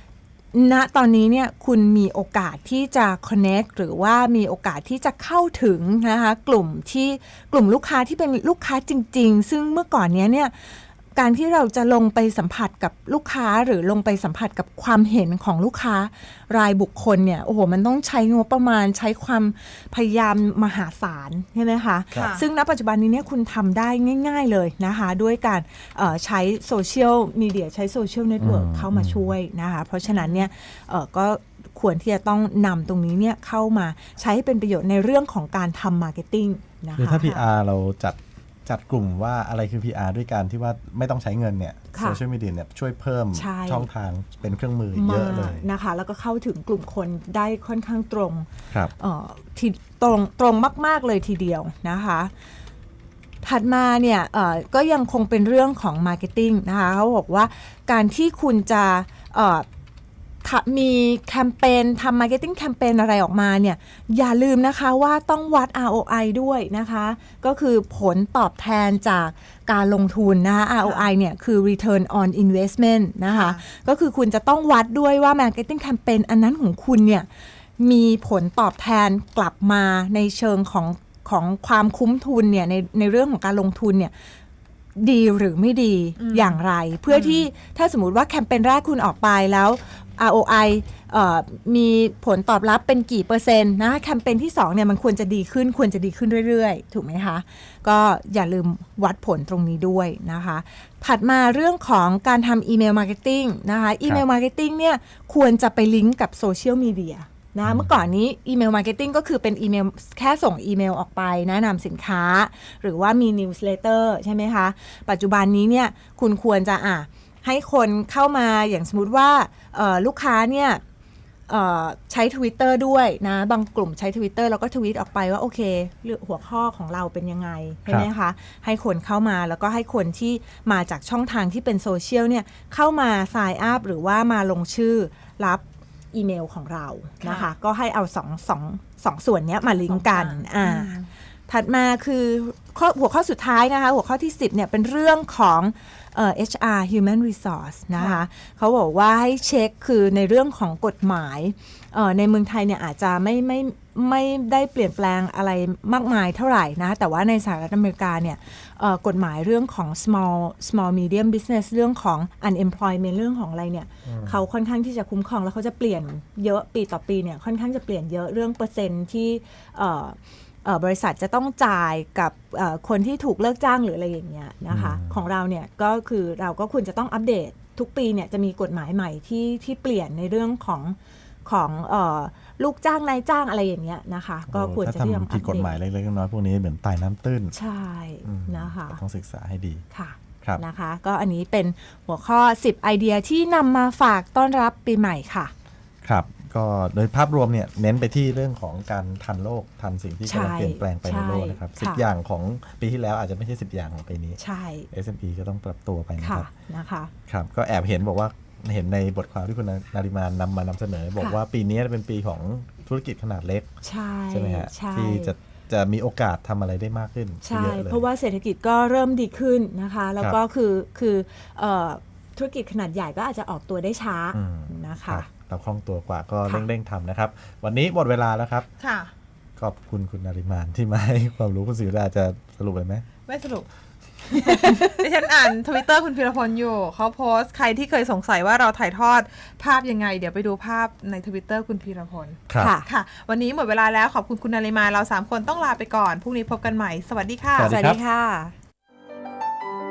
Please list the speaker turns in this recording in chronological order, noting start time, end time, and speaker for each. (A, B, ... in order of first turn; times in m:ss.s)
0:00.5-0:37.4 A
0:22.1-0:22.4 B
0:28.4-0:29.3 C
0:30.0-0:30.4 B
0:37.0-0:45.7 C
0:41.9-0:42.2 A
0:43.3-0:43.9 A
0:44.9-0:52.3 A
0:53.4-0:59.6 A
1:00.4-1:17.3 A
1:10.8-1:11.1 B
1:13.2-1:13.6 B
1:17.8-1:24.1 A
1:25.0-2:00.8 A
1:26.2-1:27.4 B
1:47.6-1:48.0 C
2:01.5-3:05.8 A
2:17.2-2:17.5 B
2:19.8-2:21.1 B
2:27.9-2:28.2 B
2:44.0-2:44.4 C
2:54.7-2:55.2 C
3:04.5-3:07.5 C
3:07.5-3:09.0 A
3:08.2-3:09.8 C
3:09.9-3:15.5 A
3:16.0-3:24.4 C
3:20.2-3:22.0 A
3:24.4-3:24.9 A
3:24.9-3:26.5 C
3:26.2-3:27.1 A
3:27.3-3:33.7 C
3:33.8-3:35.3 A
3:34.3-3:38.0 C
3:37.4-3:45.3 A
3:44.3-3:48.7 C
3:48.8-3:49.1 B
3:49.6-3:53.0 C
3:53.3-3:53.7 B
3:54.2-4:07.7 B
3:54.4-3:55.1 A
4:02.5-4:02.7 C
4:02.5-4:02.9 A
4:07.5-4:08.0 C
4:07.6-4:08.5 A